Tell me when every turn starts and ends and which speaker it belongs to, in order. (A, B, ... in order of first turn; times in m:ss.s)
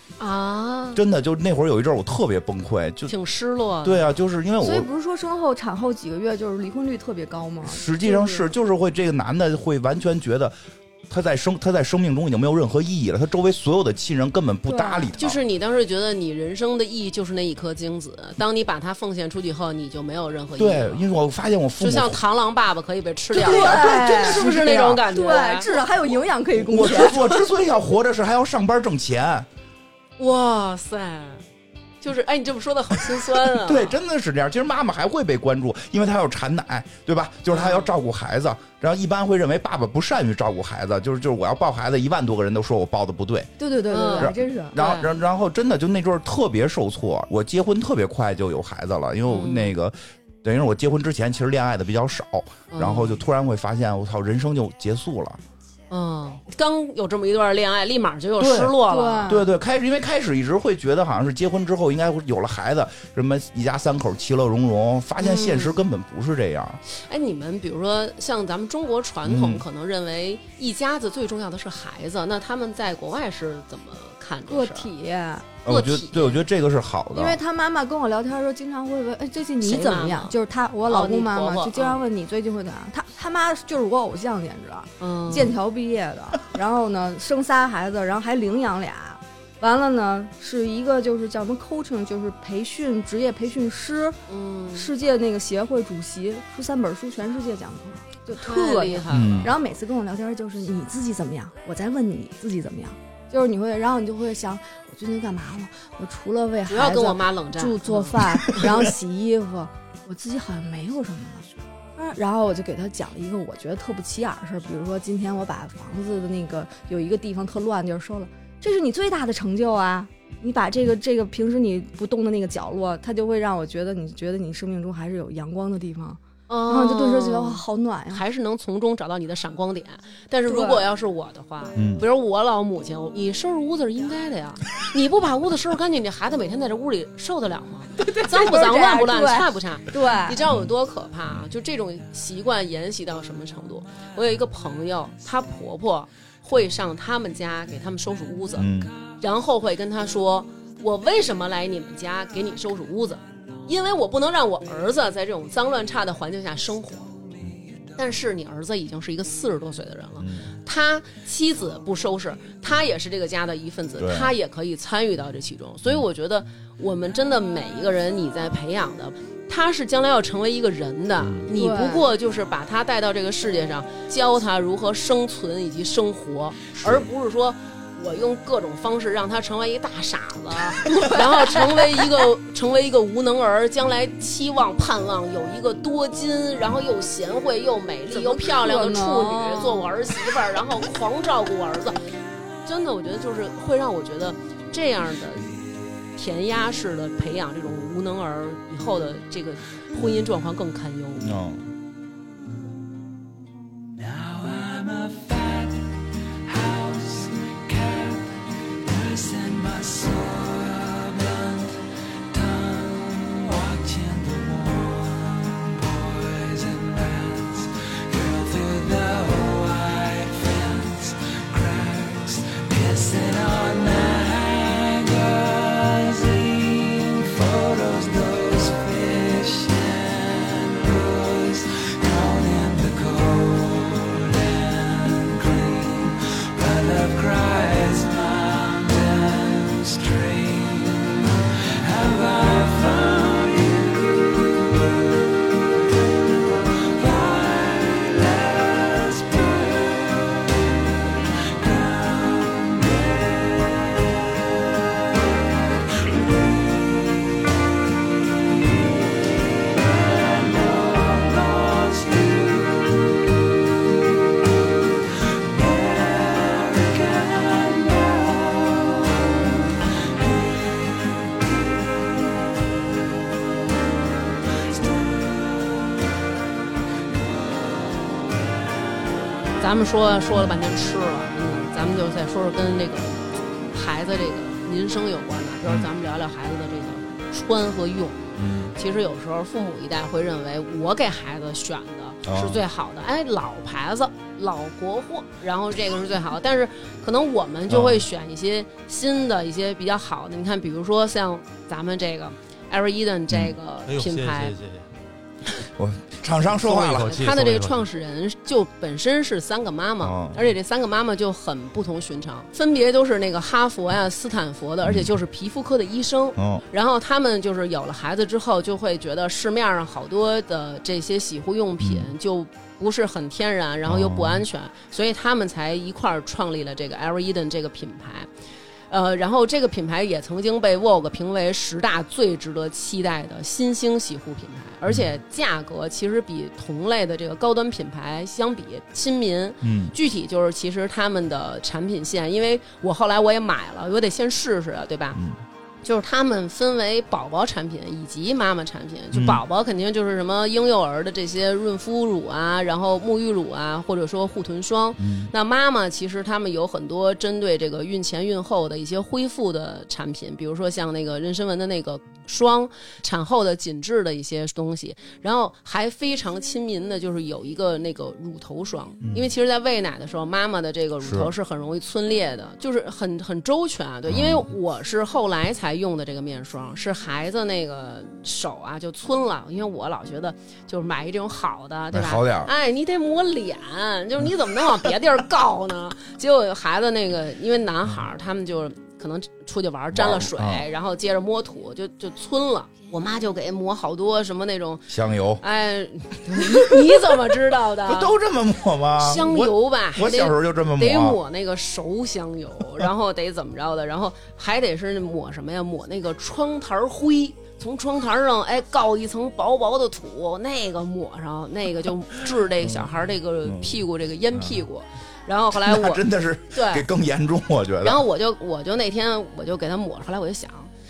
0:00.2-0:01.0 A
0:00.9-0:03.1 B
0:03.1-0:04.1 A
0:03.8-0:04.9 B
0:04.6-0:08.5 C
0:07.6-0:10.5 B
0:11.1-0:15.4 B
0:14.7-0:15.1 C
0:15.2-0:21.1 A
0:20.6-0:22.2 B
0:21.8-0:26.2 A
0:23.3-0:25.0 B
0:23.3-0:27.4 C
0:26.5-0:29.5 B
0:30.2-0:31.4 A
0:32.0-0:34.0 A
0:33.3-0:43.5 B
0:37.5-0:37.9 A
0:43.6-0:44.8 C
0:43.9-0:45.1 A
0:44.2-0:55.4 B
0:49.3-0:49.7 A
0:52.7-0:53.2 A
0:55.9-0:59.4 A
0:58.4-1:06.8 B
0:58.8-0:59.4 C
1:05.2-1:05.7 A
1:06.9-1:14.9 A
1:09.2-1:09.6 B
1:14.5-1:15.5 C
1:15.6-1:17.4 B
1:15.6-1:16.4 A
1:17.1-1:34.2 C
1:19.6-1:20.3 A
1:20.9-1:22.0 A
1:25.0-1:25.5 A
1:34.3-1:34.9 A
1:34.7-2:08.2 C
1:38.3-1:39.5 A
1:39.1-1:39.5 B
1:46.7-1:48.6 A
2:06.5-2:37.1 A
2:10.4-2:10.9 C
2:11.8-2:12.0 B
2:18.0-2:20.4 C
2:28.6-2:28.9 B
2:38.0-3:12.0 A
2:40.2-2:40.5 B
2:44.0-2:44.3 B
2:51.2-2:51.5 B
2:51.5-2:52.1 C
2:56.8-2:57.0 B
3:01.0-3:01.6 C
3:08.1-3:09.9 C
3:12.6-3:15.6 A
3:16.1-3:21.3 A
3:21.2-3:21.6 B
3:23.9-4:05.5 D
4:06.3-4:14.1 D
4:15.8-4:17.4 D
4:18.6-4:23.1 D
4:25.2-4:31.8 D
4:34.6-4:35.8 D
4:39.6-5:04.6 A
4:40.3-4:40.6 B
4:48.4-4:48.7 B
4:52.2-4:52.6 B
4:57.7-4:58.0 B
5:03.8-5:04.9 E
5:05.7-5:07.2 B
5:06.5-5:07.8 E
5:07.1-5:28.3 A
5:10.0-5:10.4 B
5:14.8-5:15.1 B
5:16.4-5:16.6 B
5:21.8-5:22.1 B
5:23.9-5:24.4 B
5:28.9-5:45.2 A
5:39.6-5:39.9 B
5:45.1-5:45.4 B
5:45.8-6:34.9 A
5:49.1-5:49.4 B
5:55.0-5:55.3 B
6:09.0-6:09.3 B
6:11.0-6:11.3 B
6:14.1-6:14.5 B
6:21.9-6:22.5 B
6:29.9-6:30.6 B
6:34.9-6:35.4 B
6:35.4-6:38.1 A
6:36.3-6:37.0 B
6:37.8-6:41.2 B
6:39.0-6:56.8 A
6:52.6-6:54.6 B
6:55.5-6:58.0 B
6:57.8-7:00.7 A